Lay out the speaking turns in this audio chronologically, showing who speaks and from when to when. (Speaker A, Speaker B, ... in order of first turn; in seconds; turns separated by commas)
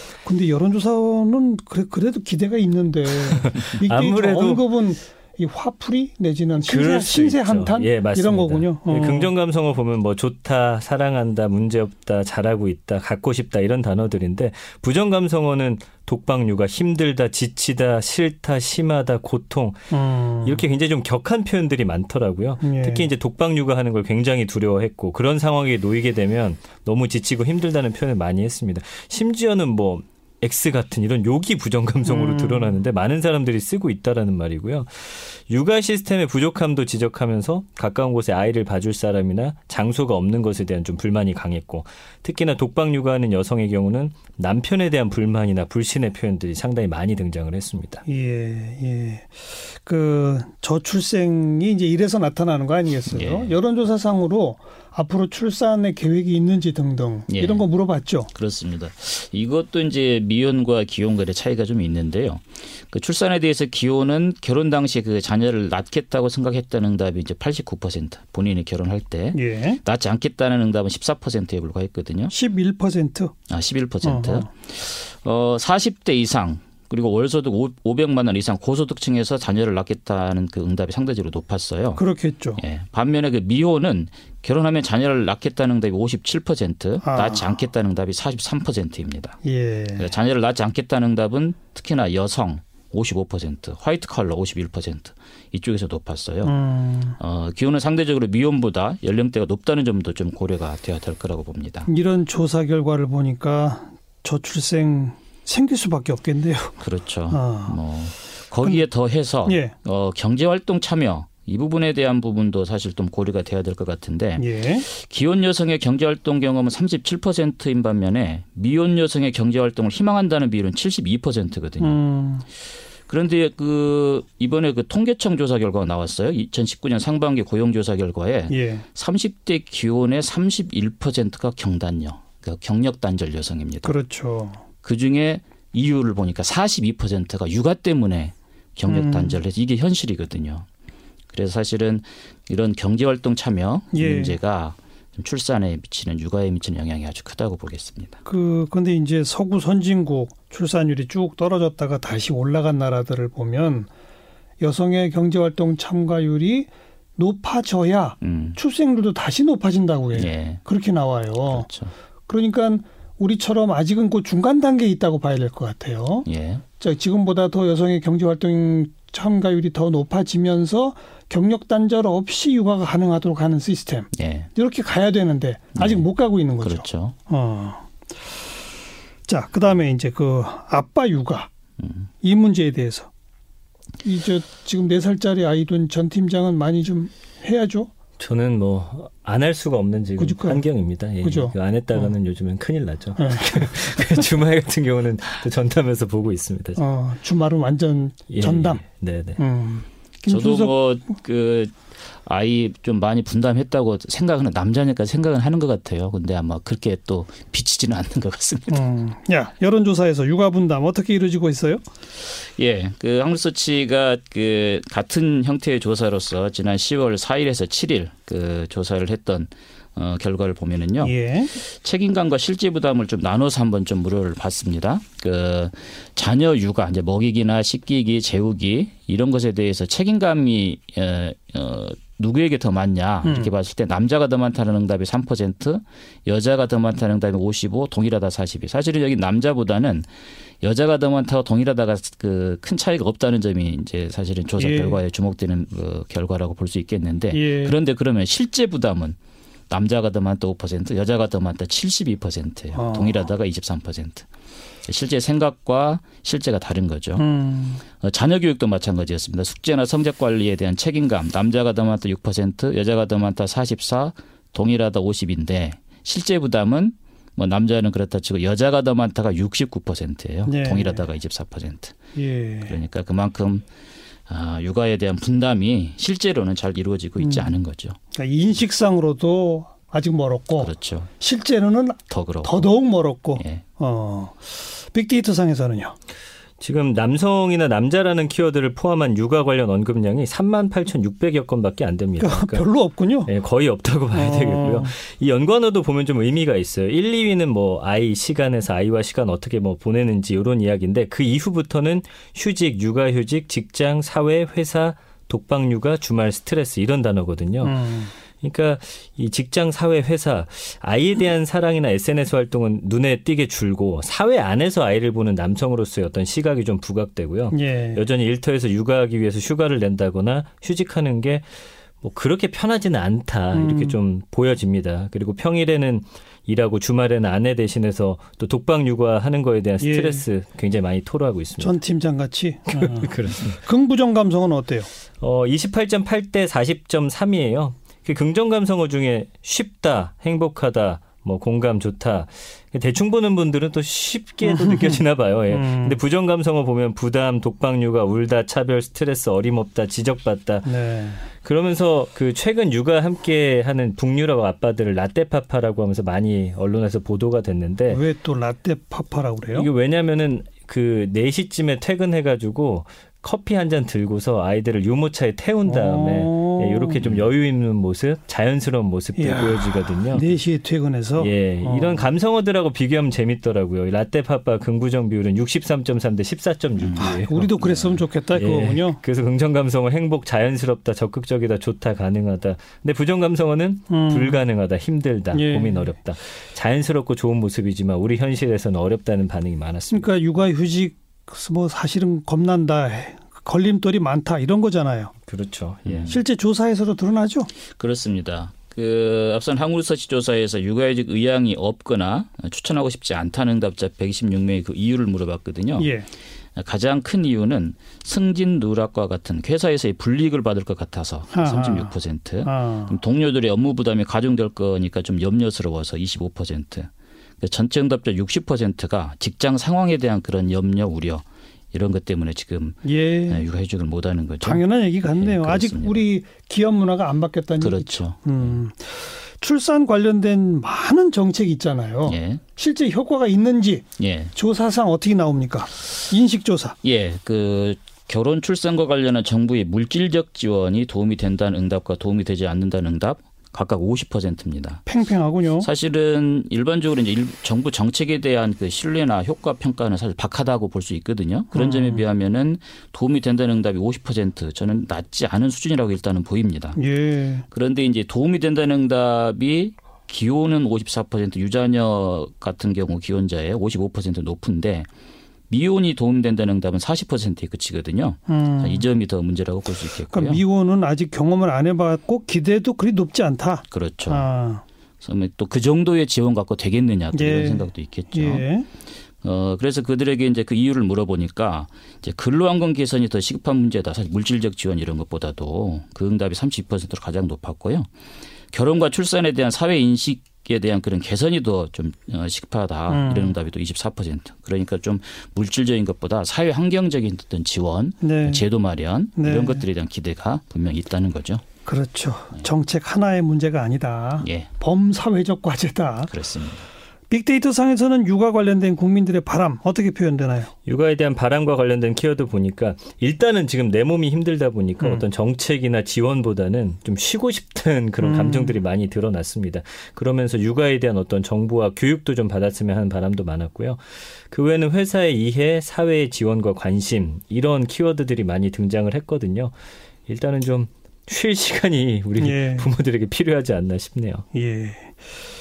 Speaker A: 0.2-9.3, Speaker B: 3.2-4.6, Speaker B: 6.6-48.0, Speaker A: 19.9-20.6, Speaker A: 22.6-23.1, Speaker A: 32.1-32.8, Speaker A: 48.1-58.3, Speaker C: 53.1-53.6, Speaker C: 57.3-57.7, Speaker C: 58.3-72.3, Speaker A: 69.3-69.8, Speaker A: 72.3-73.3, Speaker C: 73.5-82.0, Speaker A: 74.0-74.5, Speaker A: 82.0-82.6, Speaker C: 82.6-89.4, Speaker A: 87.0-87.5, Speaker A: 89.4-90.1, Speaker C: 90.0-96.5, Speaker A: 96.4-97.2, Speaker C: 97.2-101.9, Speaker A: 101.9-106.8, Speaker C: 106.8-122.0, Speaker A: 107.3-107.8, Speaker A: 109.5-109.7, Speaker A: 114.4-114.9, Speaker A: 121.8-122.5, Speaker C: 123.1-134.0, Speaker A: 128.5-128.8, Speaker A: 133.8-134.6, Speaker C: 134.8-140.7, Speaker A: 138.9-139.4, Speaker C: 141.3-148.2, Speaker A: 143.9-144.4, Speaker A: 148.2-153.9, Speaker A: 154.6-161.7, Speaker C: 158.2-158.6, Speaker C: 160.1-160.6, Speaker C: 161.5-161.9, Speaker A: 162.3-166.3, Speaker C: 166.3-166.6, Speaker A: 166.8-177.9, Speaker C: 174.1-174.5, Speaker C: 175.8-176.1, Speaker C: 176.6-177.2, Speaker A: 179.3-181.5, Speaker C: 181.8-182.1, Speaker A: 182.2-183.1, Speaker A: 184.0-187.9, Speaker B: 188.2-196.8, Speaker A: 190.2-190.6, Speaker A: 191.2-192.1, Speaker A: 193.2-194.2, Speaker A: 196.8-198.8, Speaker B: 198.3-199.4, Speaker A: 199.4-200.8, Speaker C: 200.3-201.7, Speaker C: 202.2-208.8, Speaker A: 208.7-211.8, Speaker C: 212.4-240.1, Speaker A: 221.0-221.6, Speaker A: 233.2-233.5, Speaker C: 240.6-249.2, Speaker A: 244.6-245.0, Speaker A: 247.3-247.8, Speaker C: 249.7-254.3, Speaker A: 252.7-253.3, Speaker C: 254.9-257.2, Speaker A: 257.2-257.8, Speaker C: 258.0-272.0, Speaker A: 270.5-271.1, Speaker A: 272.1-272.8, Speaker C: 272.6-273.6, Speaker C: 274.3-278.0, Speaker A: 277.2-277.5, Speaker A: 278.1-285.9, Speaker C: 280.6-281.1, Speaker C: 282.1-282.7, Speaker C: 283.4-283.6, Speaker B: 286.6-292.6, Speaker A: 292.2-293.3, Speaker B: 293.2-307.9, Speaker A: 294.1-294.9, Speaker A: 307.6-308.1, Speaker B: 308.4-321.4, Speaker A: 317.5-318.1, Speaker B: 322.0-331.8, Speaker A: 323.5-324.0, Speaker A: 329.8-330.3, Speaker A: 331.6-334.9, Speaker B: 332.7-333.6, Speaker B: 335.2-350.7, Speaker A: 344.4-346.0, Speaker A: 350.6-351.2, Speaker B: 351.4-358.0, Speaker A: 357.9-359.7, Speaker B: 359.5-370.3, Speaker A: 365.6-367.0, Speaker A: 369.2-372.1, Speaker B: 371.2-390.1, Speaker C: 376.8-377.1, Speaker A: 377.0-379.0, Speaker A: 383.9-384.4, Speaker A: 385.3-385.9, Speaker A: 389.9-395.1, Speaker B: 395.3-396.2, Speaker C: 395.9-396.2, Speaker A: 396.1-397.5, Speaker C: 397.8-405.9, Speaker A: 405.8-406.1, Speaker C: 406.6-416.9, Speaker A: 411.3-413.0, Speaker C: 417.4-426.0, Speaker A: 422.8-423.4, Speaker A: 424.4-436.8, Speaker C: 427.6-428.6, Speaker C: 432.1-432.4, Speaker C: 434.0-434.3, Speaker C: 436.8-444.8, Speaker A: 444.9-445.7, Speaker C: 445.6-456.8, Speaker A: 451.5-452.0, Speaker A: 456.8-457.4, Speaker C: 457.5-464.9, Speaker C: 465.5-470.4, Speaker A: 468.3-468.9, Speaker A: 470.1-474.6, Speaker C: 473.7-474.2, Speaker C: 475.0-478.5, Speaker A: 477.1-478.7, Speaker C: 479.2-487.9, Speaker C: 488.5-501.4, Speaker A: 492.9-493.4, Speaker A: 498.0-498.4, Speaker A: 499.1-499.7, Speaker A: 501.6-506.1, Speaker C: 504.2-504.5, Speaker C: 506.1-506.7, Speaker A: 507.1-510.5, Speaker B: 510.7-529.5, Speaker A: 514.8-515.1, Speaker A: 518.0-518.6, Speaker B: 530.1-534.2, Speaker A: 532.2-532.7, Speaker A: 534.3-535.0